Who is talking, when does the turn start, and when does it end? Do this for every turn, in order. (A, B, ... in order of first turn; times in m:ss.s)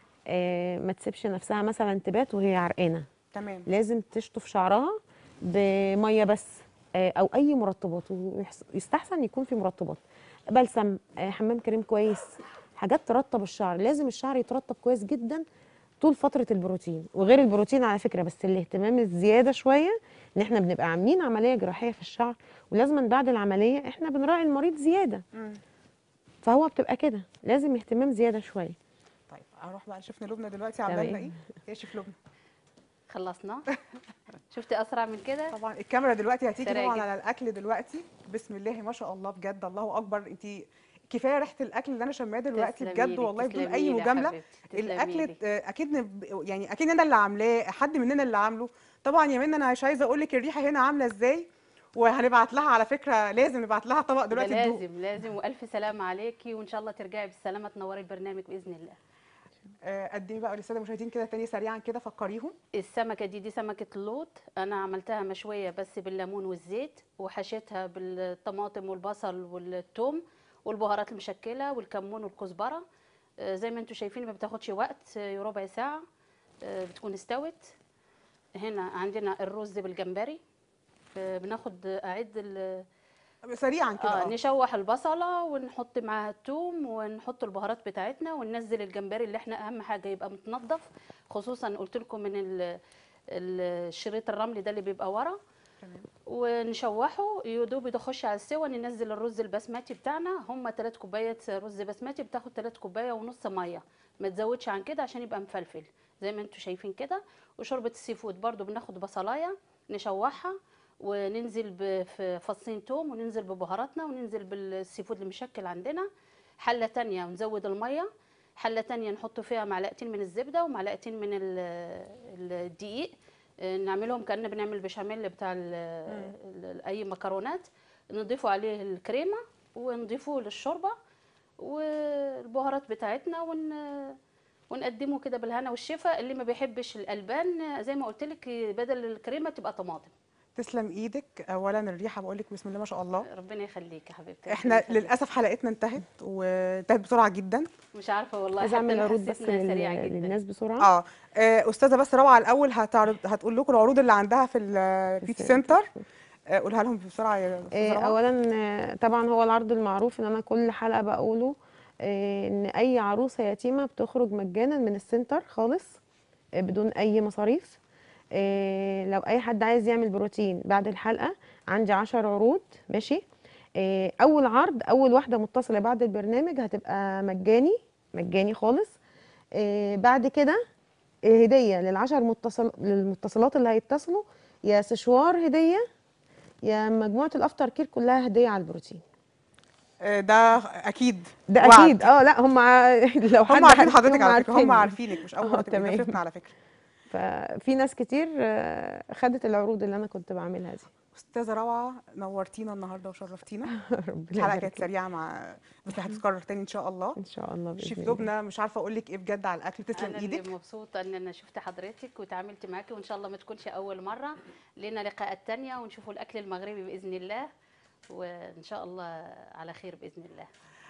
0:00.3-0:03.1 A
0:03.3-0:03.7 B
0:03.7-0:15.4 A
0:16.0-0:25.2 A
0:25.4-0:25.6 B
0:26.4-0:28.8 A
0:29.3-0:32.1 B
0:30.9-0:31.3 A
0:33.1-0:33.8 C
0:34.5-0:35.5 C
0:35.5-0:54.8 B
0:36.6-0:37.1 C
0:42.5-0:45.4 C
0:54.3-0:59.0 C
0:59.8-1:02.5 B
1:02.7-1:12.8 C
1:13.4-1:16.0 C
1:16.6-1:17.7 C
1:18.5-1:20.4 C
1:21.1-1:22.8 C
1:23.5-1:24.3 B
1:24.0-1:32.8 C
1:33.3-1:35.4 C
1:36.3-1:56.1 C
1:56.6-2:03.1 C
2:03.6-2:10.9 C
2:11.6-2:14.2 C
2:14.7-2:20.1 C
2:20.6-2:23.2 B
2:23.2-2:25.1 C
2:24.5-2:27.7 B
2:27.9-2:30.4 C
2:28.6-2:30.9 A
2:30.8-2:35.9 B
2:35.2-2:36.0 A
2:36.5-2:38.2 B
2:37.7-2:46.0 A
2:46.6-2:47.8 A
2:48.3-2:53.2 A
2:53.8-2:59.0 A
2:59.5-3:00.6 A
3:01.2-3:05.8 A
3:06.6-3:09.0 A
3:10.0-3:12.1 B
3:11.5-3:16.2 A
3:13.5-3:16.5 B
3:17.1-3:20.9 A
3:21.1-3:23.7 B
3:23.7-3:24.9 A
3:24.3-3:27.2 B
3:27.2-3:28.3 A
3:27.8-3:30.5 B
3:29.9-3:37.5 C
3:38.1-3:40.5 C